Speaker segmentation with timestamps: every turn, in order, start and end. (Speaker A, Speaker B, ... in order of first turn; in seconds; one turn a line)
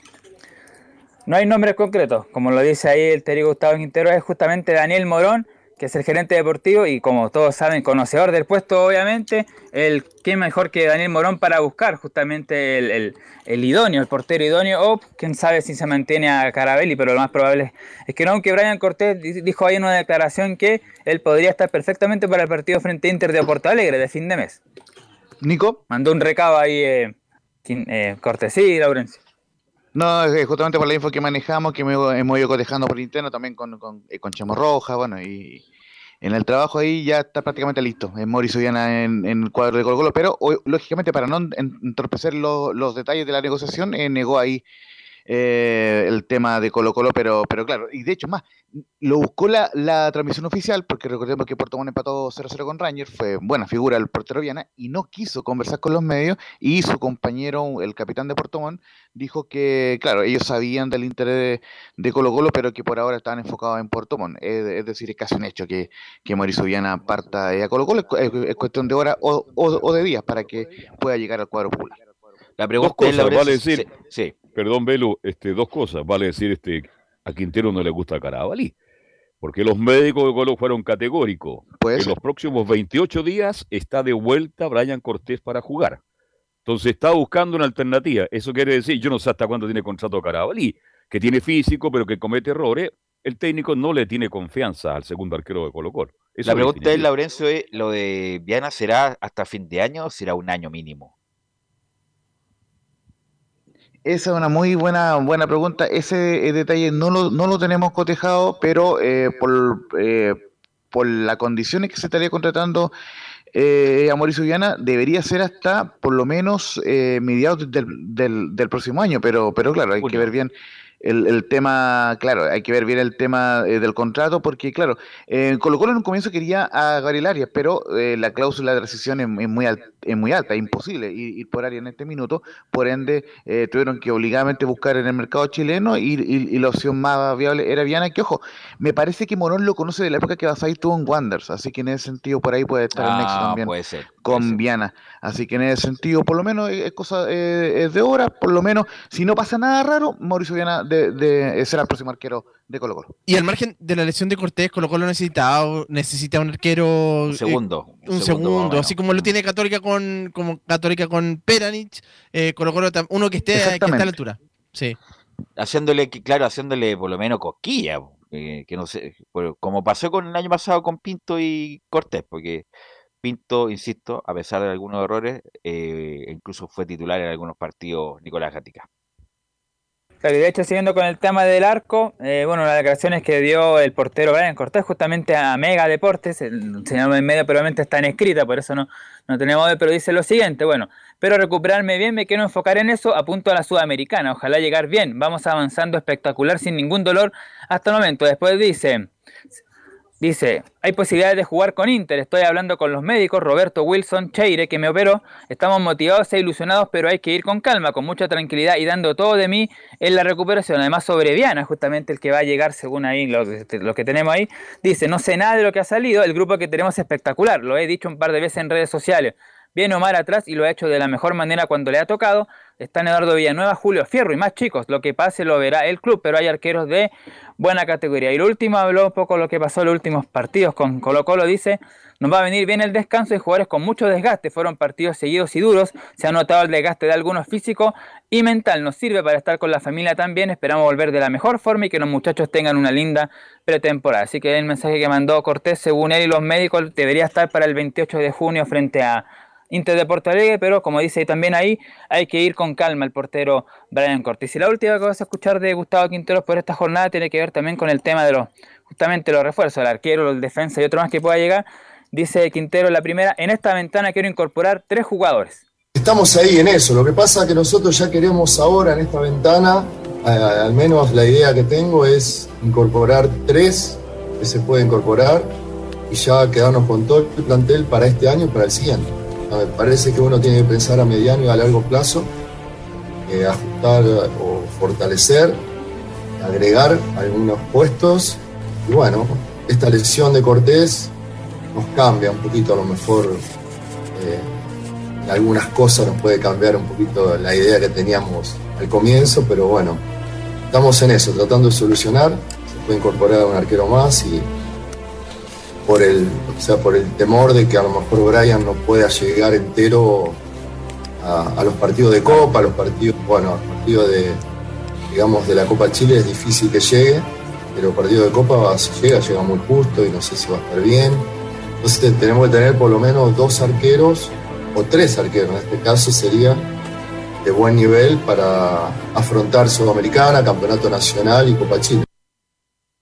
Speaker A: 1.3-24.6
Speaker B: 25.4-25.8
Speaker A: 25.9-27.1
Speaker A: 27.6-29.2
Speaker B: 29.9-35.6
Speaker B: 36.2-44.6
Speaker B: 45.3-48.4
Speaker B: 49.0-72.0
Speaker C: 72.6-74.3
Speaker D: 72.8-73.8
Speaker D: 74.5-78.7
Speaker D: 79.4-86.0
Speaker B: 81.8-82.2
Speaker D: 86.6-97.1
Speaker C: 96.4-101.1
Speaker B: 104.0-110.4
Speaker B: 110.9-112.9
Speaker B: 113.5-153.1
Speaker C: 120.0-120.3
Speaker C: 142.9-144.6
Speaker E: 153.3-165.0
Speaker C: 157.3-159.3
Speaker B: 163.5-164.1
Speaker C: 165.6-172.7
Speaker C: 173.2-178.8
Speaker A: 180.2-199.1
Speaker A: 200.2-265.6
Speaker F: 265.9-275.5
Speaker F: 276.1-282.3
Speaker F: 283.3-285.6
Speaker F: 286.4-291.1
Speaker F: 291.7-293.4
Speaker F: 294.1-294.5
Speaker F: 295.2-300.0
Speaker F: 300.7-304.5
Speaker F: 305.9-310.4
Speaker F: 311.2-314.4
Speaker F: 315.1-321.3
Speaker F: 321.8-326.7
Speaker F: 327.4-332.0